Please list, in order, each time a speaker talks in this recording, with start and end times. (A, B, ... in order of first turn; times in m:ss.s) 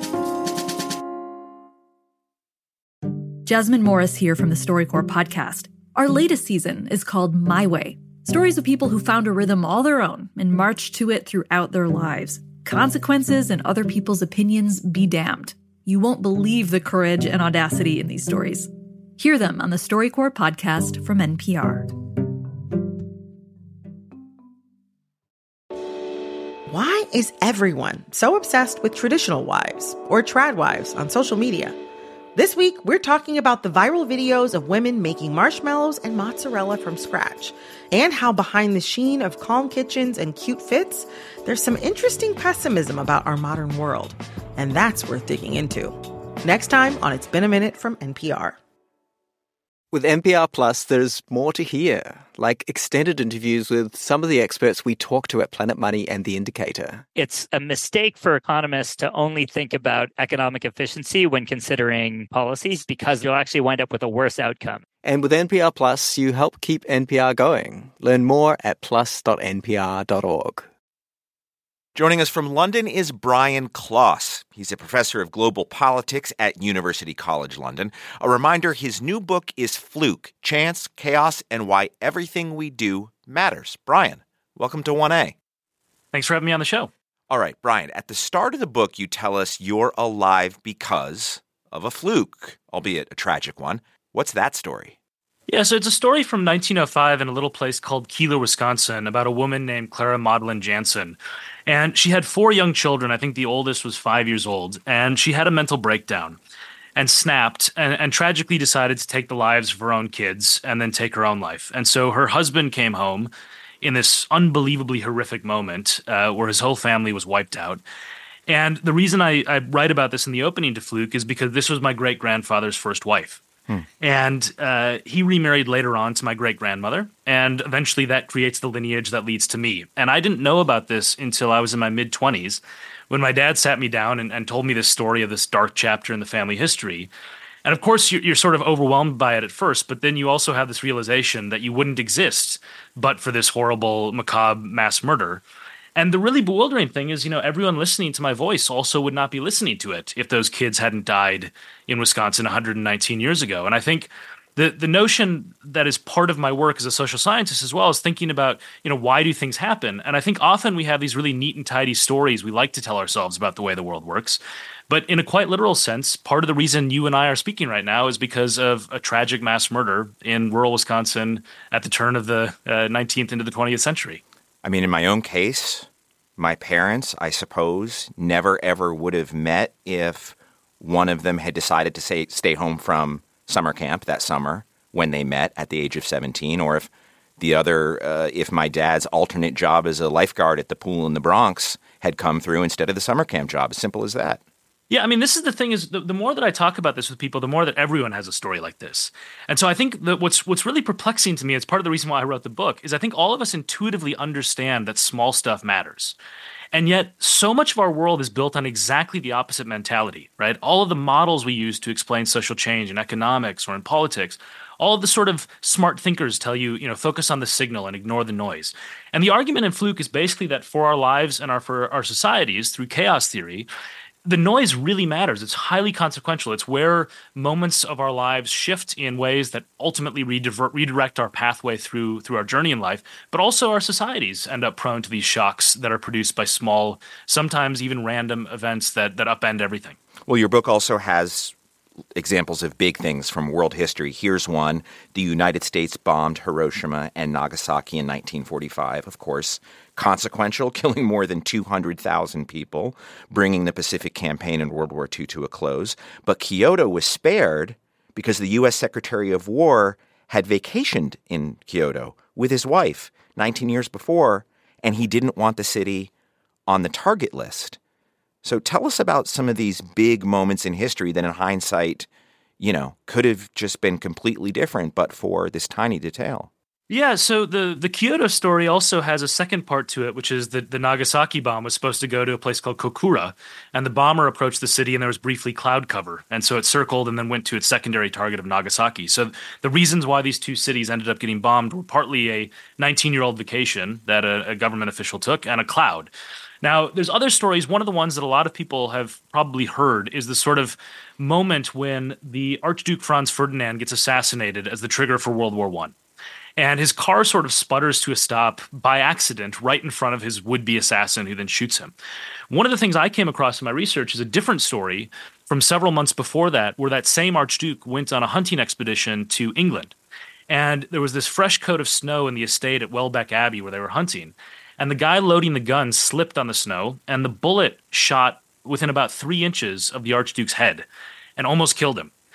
0:03.4-0:21.9 A
0:26.7-0:31.8 B
0:32.3-0:48.6 B
0:49.9-0:57.0 C
0:57.2-1:04.8 D
1:05.0-1:10.7 C
1:11.9-1:25.4 E
1:26.1-1:26.9 F
1:27.3-1:35.0 E
1:35.5-1:46.4 F
1:47.0-1:53.3 F
1:53.8-1:57.8 F
1:58.5-2:03.4 F
2:04.0-2:17.1 F
2:17.6-2:25.4 F
2:26.0-2:54.2 F
2:54.6-3:14.4 E
3:14.9-3:26.2 F
3:26.7-3:43.7 F
3:44.2-4:00.0 F
4:00.3-4:01.5 E
4:02.2-4:26.1 E
4:26.7-4:27.8 E
4:28.4-4:32.1 E
4:32.6-4:36.5 E
4:36.9-5:06.0 F
5:06.6-5:11.9 F
5:12.5-5:20.0 F
5:20.5-5:30.9 F
5:31.4-5:32.1 F